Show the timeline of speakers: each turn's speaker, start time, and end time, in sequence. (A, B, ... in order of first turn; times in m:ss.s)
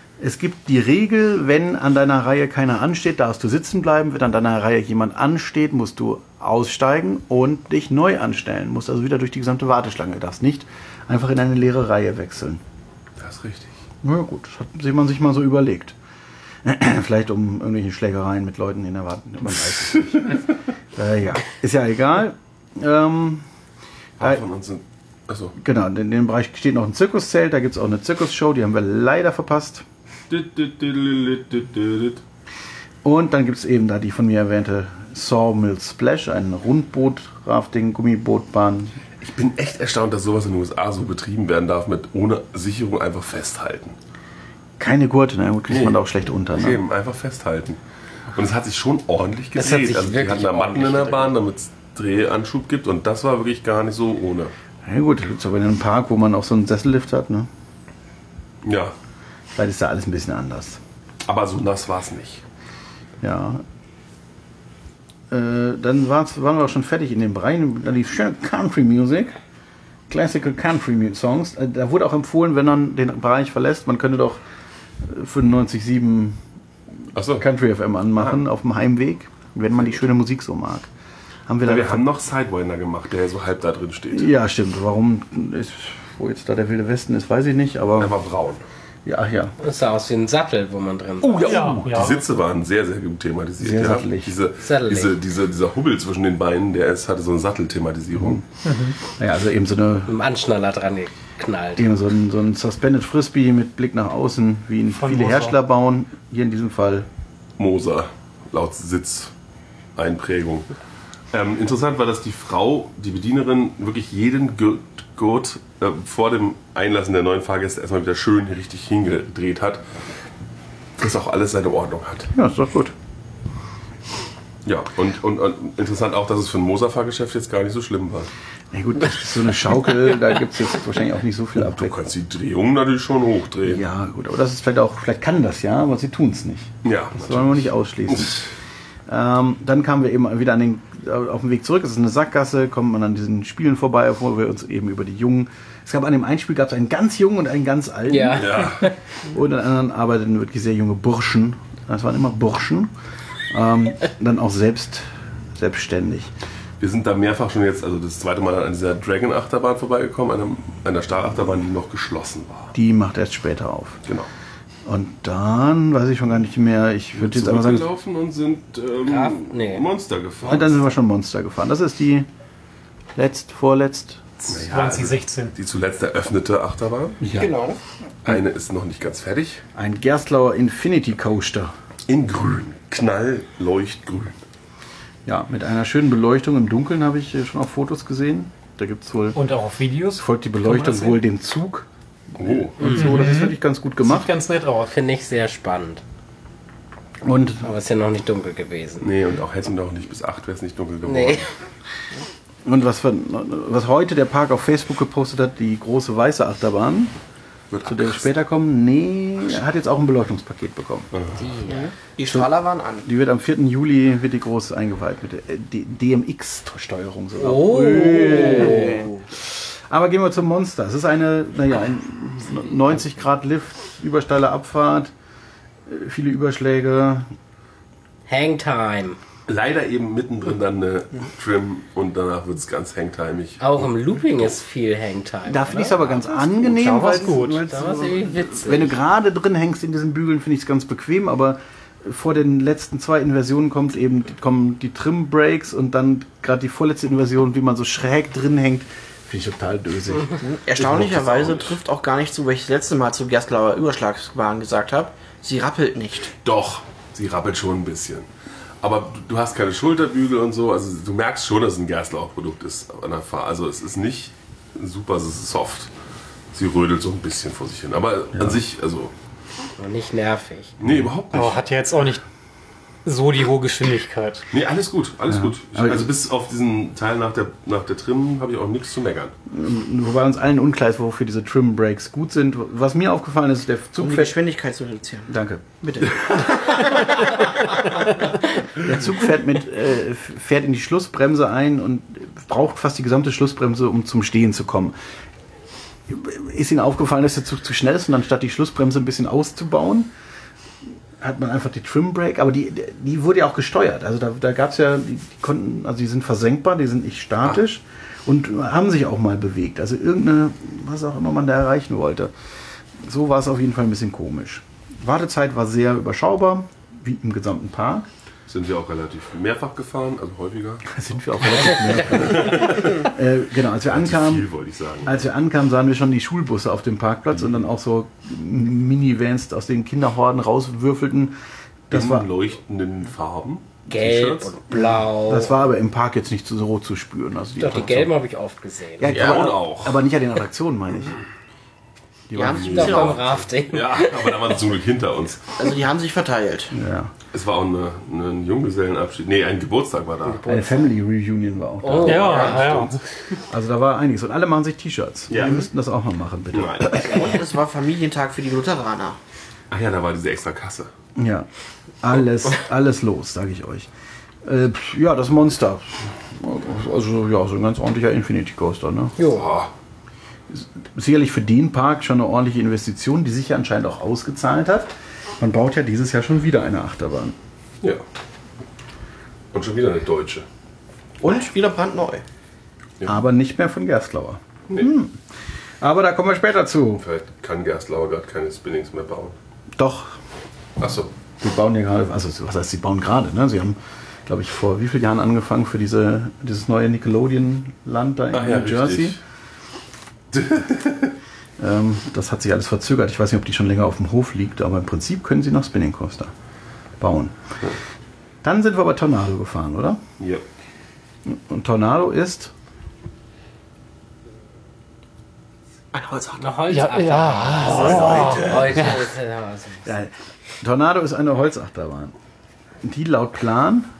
0:00.2-0:12.6 A
0:13.2-0:13.7 B
0:14.0-0:15.9 A
0:16.6-0:23.4 A
0:24.2-0:25.5 B
0:25.6-0:29.8 A
0:30.3-0:32.2 B
0:33.0-0:39.0 A
0:39.2-0:44.0 B
0:44.8-0:46.8 A
0:45.7-0:46.0 B
0:46.5-0:47.8 B
0:48.3-0:54.5 B
0:49.6-0:51.3 C
0:54.8-0:57.5 A
0:58.6-0:58.9 B
0:59.5-1:00.8 A
1:01.2-1:02.4 B
1:03.2-1:03.6 A
1:05.3-1:09.3 A
1:10.1-1:14.4 A
1:15.0-1:16.4 A
1:17.1-1:17.4 B
1:17.3-1:20.9 A
1:21.5-1:22.1 A
1:21.6-1:24.3 B
1:24.1-1:28.2 A
1:28.0-1:28.6 B
1:29.0-1:29.6 A
1:29.6-1:31.7 C
1:31.2-1:32.2 A
1:31.4-1:32.1 D
1:31.5-1:38.4 B
1:33.6-1:34.3 A
1:34.6-1:35.1 C
1:38.6-1:39.0 D
1:39.1-1:40.1 A
1:40.1-1:41.9 C
1:41.8-1:47.1 A
1:45.0-1:45.6 D
1:47.6-1:49.3 B
1:50.0-1:50.7 B
1:51.3-1:59.8 B
2:01.0-2:02.3 B
2:02.3-2:02.9 A
2:04.6-2:08.3 B
2:08.7-2:11.9 A
2:11.6-2:13.8 B
2:13.6-2:18.5 A
2:16.8-2:18.4 B
2:19.1-2:32.9 A
2:28.1-2:28.9 C
2:28.4-2:28.8 B
2:33.5-2:36.3 A
2:36.8-2:42.7 B
2:42.7-2:44.0 A
2:44.8-2:47.9 A
2:47.2-2:50.7 B
2:49.1-2:49.9 C
2:50.4-2:52.3 A
2:53.1-2:54.5 A
2:54.5-2:57.2 B
2:54.7-2:55.5 D
2:57.2-2:57.5 A
2:57.3-2:57.8 E
2:58.2-2:59.6 B
2:59.7-3:01.7 A
3:02.1-3:04.4 B
3:05.2-3:09.4 A
3:09.3-3:11.2 D
3:10.2-3:14.4 A
3:12.4-3:12.9 B
3:12.8-3:14.8 D
3:14.7-3:16.0 C
3:17.2-3:17.7 A
3:17.6-3:19.1 C
3:19.0-3:21.5 B
3:21.0-3:21.4 C
3:22.6-3:27.1 A
3:27.7-3:28.2 B
3:27.8-3:31.1 A
3:31.1-3:31.4 B
3:31.4-3:31.9 C
3:31.7-3:33.1 E
3:32.2-3:32.5 A
3:33.0-3:45.1 A
3:37.4-3:39.1 C
3:38.2-3:39.2 E
3:45.9-3:47.3 A
3:48.3-3:49.2 C
3:49.5-3:53.8 B
3:53.6-3:59.0 C
3:55.5-4:10.3 A
3:56.6-3:57.6 D
4:10.4-4:16.3 E
4:10.8-4:11.8 B
4:16.4-4:18.2 B
4:18.8-4:25.9 B
4:26.5-4:29.1 B
4:29.8-4:30.7 C
4:30.8-4:31.6 B
4:31.3-4:32.2 D
4:33.0-4:34.5 D
4:34.5-4:39.3 B
4:35.3-4:36.1 A
4:39.5-4:44.3 A
4:44.0-4:45.3 E
4:45.3-4:46.1 A
4:45.8-4:46.9 E
4:48.8-4:54.9 A
4:56.1-5:00.1 A
5:01.2-5:12.3 A
5:13.0-5:18.1 A
5:18.5-5:20.8 B
5:20.8-5:24.5 A
5:22.0-5:23.1 B
5:23.8-5:25.2 B
5:25.0-5:31.4 A
5:31.9-5:32.3 A
5:31.9-5:34.6 B
5:33.9-5:35.5 C
5:34.7-5:38.1 A
5:37.6-5:39.1 C
5:39.0-5:41.2 A
5:39.1-5:40.0 B
5:39.1-5:39.5 E
5:42.3-5:43.1 A
5:42.3-5:43.2 E
5:42.5-5:44.5 C
5:42.5-5:45.5 B
5:45.6-5:46.7 E
5:46.7-5:47.1 A
5:47.3-5:50.5 B
5:50.3-5:50.8 C
5:50.5-5:52.4 A
5:51.8-5:52.8 C
5:52.0-5:53.0 D
5:52.2-5:53.0 B
5:53.5-5:57.3 A
5:55.3-5:55.7 B
5:56.5-5:57.2 B
5:57.0-5:59.2 E
5:59.7-6:00.9 B
6:01.2-6:01.5 A
6:02.0-6:03.9 A
6:04.4-6:09.1 A
6:09.2-6:09.4 C
6:09.2-6:09.7 B
6:10.5-6:17.4 A
6:19.5-6:20.4 B
6:21.2-6:22.2 E
6:23.0-6:25.2 A
6:25.8-6:27.0 A
6:27.0-6:29.3 B
6:29.8-6:30.2 A
6:30.8-6:31.1 B
6:31.4-6:39.2 A
6:38.3-6:39.2 B
6:40.3-6:41.1 B
6:41.6-6:46.3 A
6:47.0-6:47.4 A
6:48.4-6:50.0 A
6:50.2-6:50.4 B
6:51.3-6:52.5 A
6:55.9-6:56.6 E
6:56.4-6:59.9 C
6:56.6-6:59.0 D
6:57.6-6:58.7 B
6:57.7-6:58.9 A
6:59.8-7:02.1 A
7:02.8-7:03.9 A